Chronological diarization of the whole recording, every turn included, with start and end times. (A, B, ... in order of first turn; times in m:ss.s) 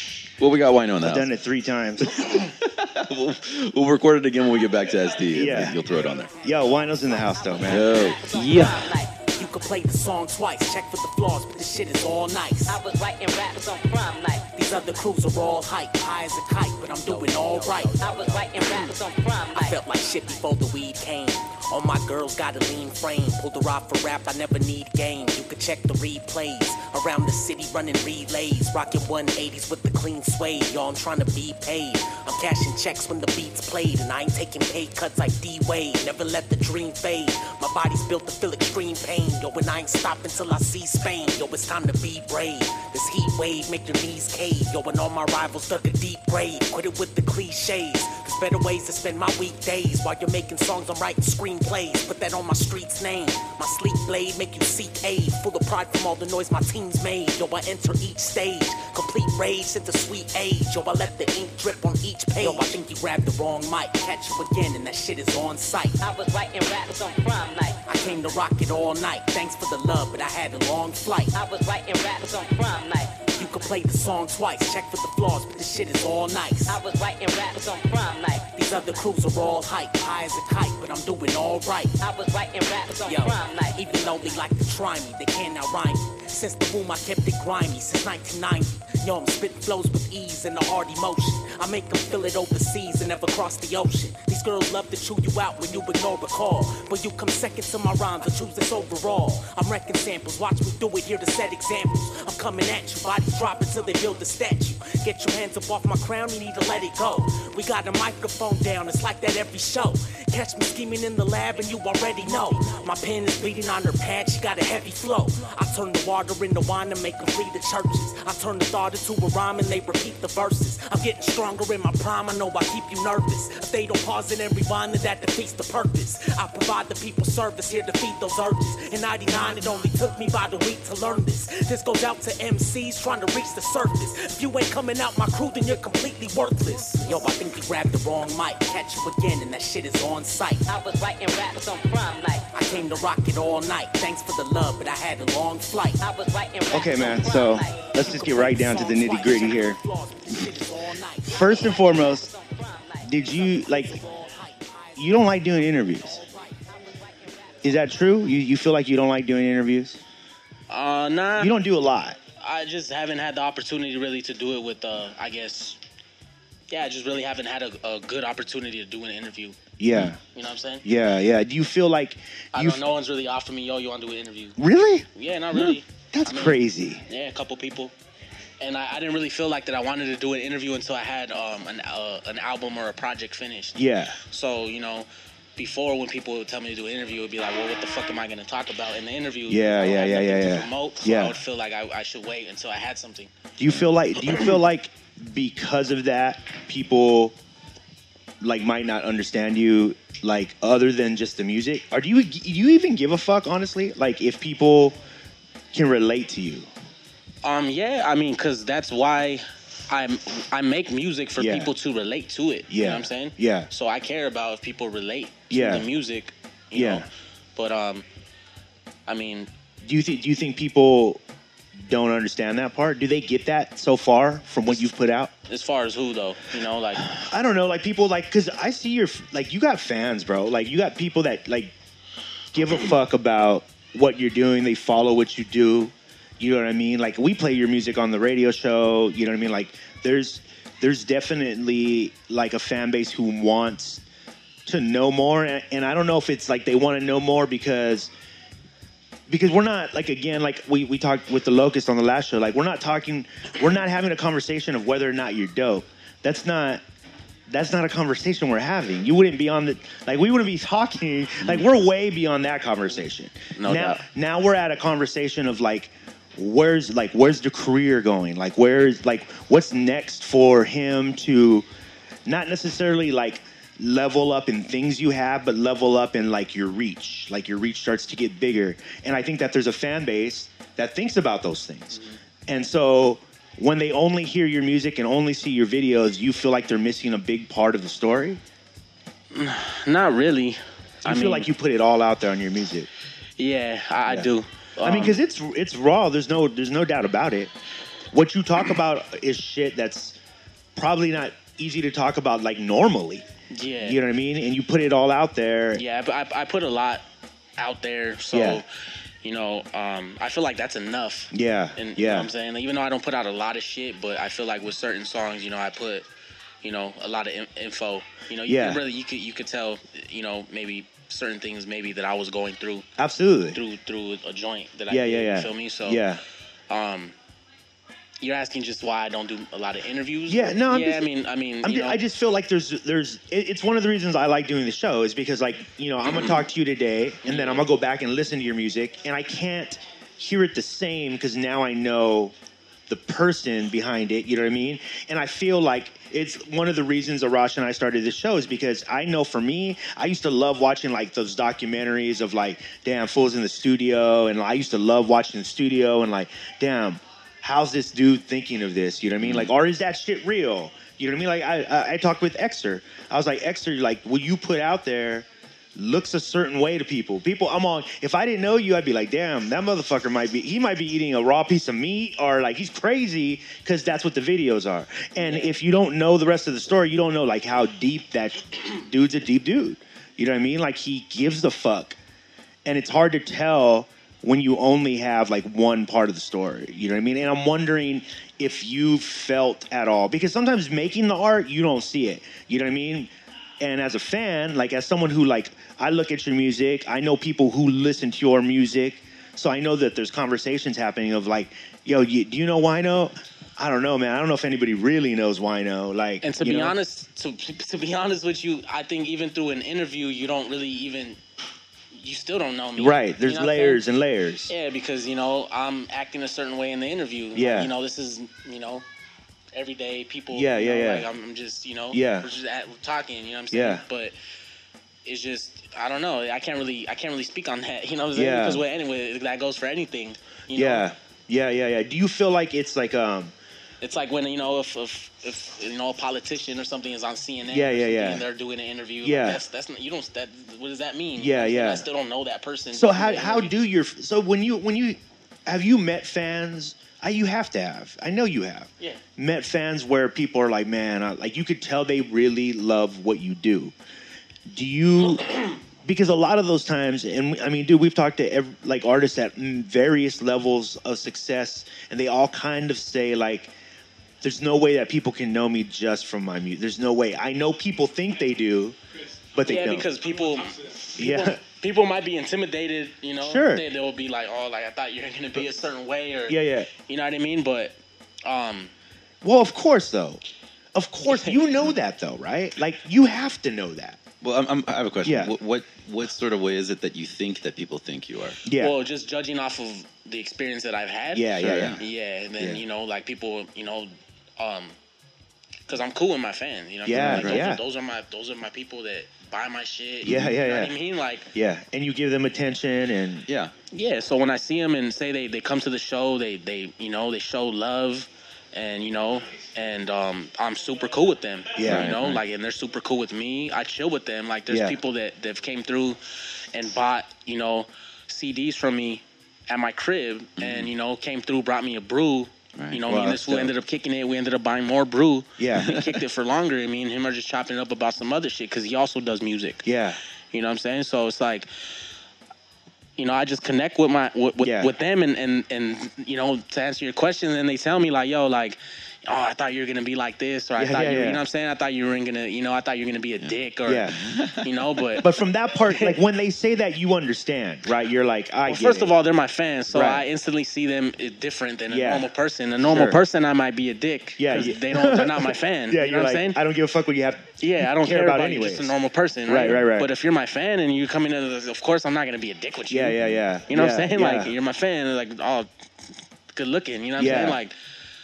0:00.4-0:01.3 A
0:01.0-0:02.4 B
0:02.0-0:06.4 A
0:05.3-0:05.8 B
0:06.4-0:08.0 B
0:07.4-0:09.2 C
0:07.6-0:08.9 A
0:08.5-0:12.8 D
0:12.7-0:14.5 C
0:14.5-0:18.9 D
0:18.0-0:19.8 C
0:19.5-1:06.0 D
1:02.4-1:02.7 C
1:06.0-1:07.8 C
1:07.9-1:11.4 D
1:11.3-1:13.3 C
1:13.4-1:16.8 D
1:16.7-1:18.6 C
1:18.5-1:22.0 D
1:22.0-1:24.4 C
1:23.0-2:20.7 D
2:20.7-2:22.5 C
2:22.5-2:26.0 D
2:26.0-2:27.9 C
2:26.7-2:29.8 B
2:28.0-2:31.6 D
2:31.3-2:32.3 B
2:31.4-2:33.6 C
2:33.0-2:34.0 B
2:33.5-2:35.2 D
2:35.0-2:36.2 B
2:36.0-2:36.6 D
2:36.7-2:37.8 C
2:37.6-2:40.0 B
2:40.7-2:41.6 E
2:41.4-2:42.2 B
2:42.4-2:45.8 E
2:46.7-2:49.6 E
2:49.8-2:50.2 B
2:50.3-2:50.8 E
2:50.8-2:52.8 B
2:52.5-2:54.6 E
2:54.6-2:57.0 B
2:55.2-2:57.9 E
2:58.6-3:13.3 E
3:03.8-3:04.2 B
3:09.5-3:11.4 B
3:13.6-3:17.4 B
3:18.4-3:25.0 B
3:25.7-3:26.7 B
3:27.4-3:38.0 E
3:31.4-3:31.7 B
3:32.7-3:33.7 B
3:35.5-3:35.9 B
3:36.7-3:37.1 B
3:39.1-3:39.5 E
3:39.8-3:41.2 B
3:41.8-3:45.3 B
3:45.5-3:47.2 E
3:47.1-3:51.7 B
3:52.5-4:04.0 B
4:04.7-4:08.1 B
4:09.3-4:16.8 B
4:17.5-4:31.7 B
4:23.6-4:24.0 E
4:32.3-4:48.4 B
4:49.3-4:51.5 E
4:51.0-4:52.9 B
4:53.4-4:55.2 E
4:54.8-4:57.5 B
4:58.1-5:00.2 B
5:00.8-5:03.2 B
5:03.5-5:04.0 E
5:03.8-5:05.8 B
5:05.8-5:07.0 E
5:07.6-5:08.7 E
5:08.3-5:08.6 B
5:09.2-5:16.1 E
5:11.3-5:12.3 B
5:16.6-5:22.9 E
5:18.5-5:18.8 B
5:23.0-5:23.6 B
5:23.5-5:26.0 E
5:24.9-5:26.2 B
5:26.7-5:27.1 E
5:28.2-5:32.0 E
5:30.3-5:31.1 B
5:31.6-5:42.3 B
5:37.2-5:37.7 E
5:42.9-6:22.0 B
5:59.2-5:59.5 A
6:15.2-6:15.6 E
6:22.6-6:33.1 B
6:33.6-6:46.8 B
6:46.2-6:51.2 E
6:52.0-6:53.8 E
6:52.8-6:54.5 B
6:54.5-6:58.8 E
6:57.3-6:57.7 B
6:59.5-7:04.2 E
7:00.3-7:01.1 B
7:01.9-7:02.3 B
7:03.5-7:03.8 B
7:05.0-7:10.9 E
7:08.1-7:08.6 B
7:10.5-7:13.3 B
7:13.8-7:23.5 E
7:17.5-7:18.3 B
7:19.0-7:19.4 B
7:21.2-7:21.9 B
7:22.7-7:33.7 B
7:34.5-7:43.5 B
7:44.2-7:48.8 B
7:49.3-7:49.9 B
7:49.4-7:58.7 E
7:51.0-7:51.4 B
7:53.2-7:53.7 B
7:56.3-7:56.7 B
7:59.2-8:00.2 B
8:00.7-8:04.0 B
8:01.1-8:01.4 E
8:04.2-8:08.4 A
8:05.0-8:05.3 B
8:08.4-8:08.8 B
8:08.6-8:14.8 E
8:11.1-8:11.8 B
8:11.4-8:11.8 A
8:15.7-8:21.3 E
8:16.8-8:17.6 B
8:16.9-8:17.5 A
8:20.0-8:20.7 B
8:20.0-8:20.3 A
8:21.3-8:23.2 B
8:23.3-8:23.5 A
8:23.7-8:36.0 E
8:31.6-8:32.0 B
8:31.6-8:32.2 A
8:34.5-8:34.8 B
8:36.5-8:49.7 E
8:40.4-8:40.7 A
8:42.6-8:42.8 A
8:42.8-8:43.5 B
8:45.4-8:45.8 B
8:45.6-8:46.0 A
8:49.6-8:50.0 B
8:50.3-8:51.5 E
8:53.0-9:05.1 E
8:54.4-8:54.7 B
9:00.6-9:01.2 B
9:03.7-9:04.0 B
9:03.9-9:04.7 A
9:05.0-9:08.9 B
9:05.7-9:06.0 E
9:08.5-9:16.4 E
9:09.7-9:10.1 B
9:11.7-9:12.1 B
9:12.6-9:13.0 B
9:14.2-9:18.7 B
9:17.4-9:25.5 E
9:19.3-9:19.9 B
9:22.7-9:24.4 B
9:26.3-9:27.5 E
9:27.0-9:27.4 B